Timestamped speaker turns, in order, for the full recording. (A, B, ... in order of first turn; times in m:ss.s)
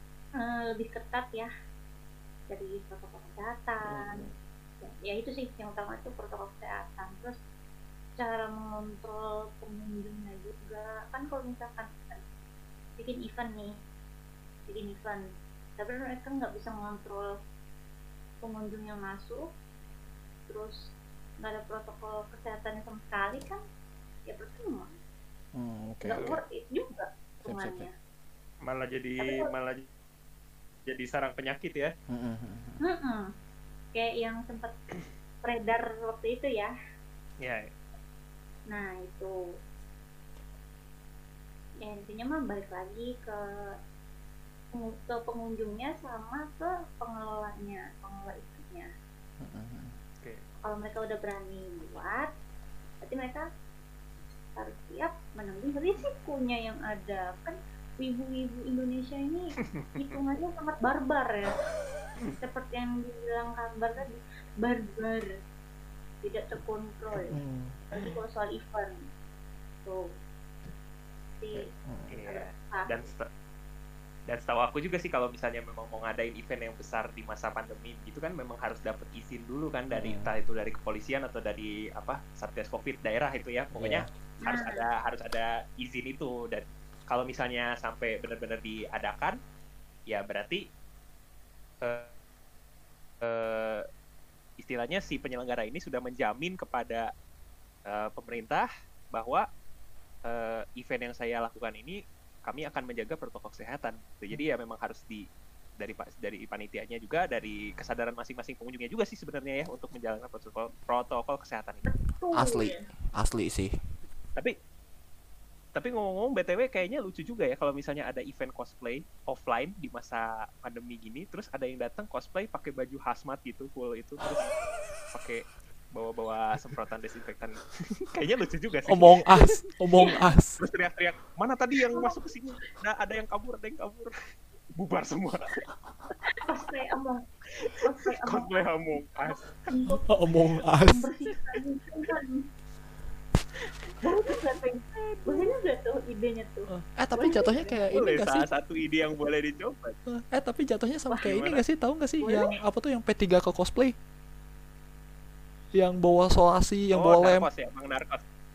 0:00.4-0:01.5 A
0:02.5-0:04.3 A
0:03.9-0:04.3 B
0:04.8-0:07.4 A
0:08.2-0:12.2 A
0:13.0-0:13.7 A
0:14.7-0:15.2 A
0:15.8-0:17.3 A
0:18.4-0:19.4 A
0:20.5-0:20.8 A
0:21.4-0:23.6 A
0:24.3-0:24.9 A
0:25.5-0:26.4 B
0:26.0-0:27.9 A
0:27.4-0:27.9 B
0:28.6-0:29.8 C
0:29.2-0:29.5 A
0:30.9-0:31.9 C
0:32.1-0:32.8 B
0:32.8-0:33.3 A
0:33.9-0:34.7 A
0:35.4-0:36.7 A
0:37.4-0:37.7 C
0:38.7-0:39.3 A
0:41.8-0:43.3 A
0:44.7-0:48.9 A
0:49.4-0:50.0 B
0:50.6-0:52.3 A
0:53.0-0:53.4 A
0:54.6-1:01.6 A
0:59.7-1:00.2 C
1:02.4-1:05.3 A
1:06.2-1:07.4 A
1:07.1-1:07.8 B
1:07.9-1:09.0 A
1:11.4-1:11.6 A
1:11.5-1:12.2 B
1:12.1-1:13.3 C
1:12.3-1:12.9 A
1:14.3-1:29.4 C
1:19.9-1:20.3 B
1:23.7-1:24.1 B
1:24.4-1:24.9 A
1:30.1-1:30.6 C
1:31.8-1:32.1 C
1:33.2-1:33.8 C
1:34.6-1:37.1 C
1:37.9-1:39.4 C
1:40.2-1:45.2 C
1:45.8-1:51.8 C
1:51.8-1:52.8 A
1:52.3-1:53.7 B
1:55.7-2:04.5 C
2:05.1-2:09.5 C
2:08.9-2:10.6 B
2:10.6-2:14.1 C
2:14.8-2:15.6 C
2:16.3-2:17.2 A
2:17.6-2:20.0 C
2:17.8-2:18.6 A
2:19.2-2:20.0 A
2:20.1-2:21.1 B
2:20.8-2:22.4 A
2:24.0-2:27.9 A
2:25.2-2:25.5 C
2:26.7-2:28.4 B
2:27.9-2:29.9 C
2:30.1-2:34.0 B
2:31.2-2:31.6 C
2:32.2-2:32.6 A
2:35.7-2:37.5 B
2:36.9-2:38.2 C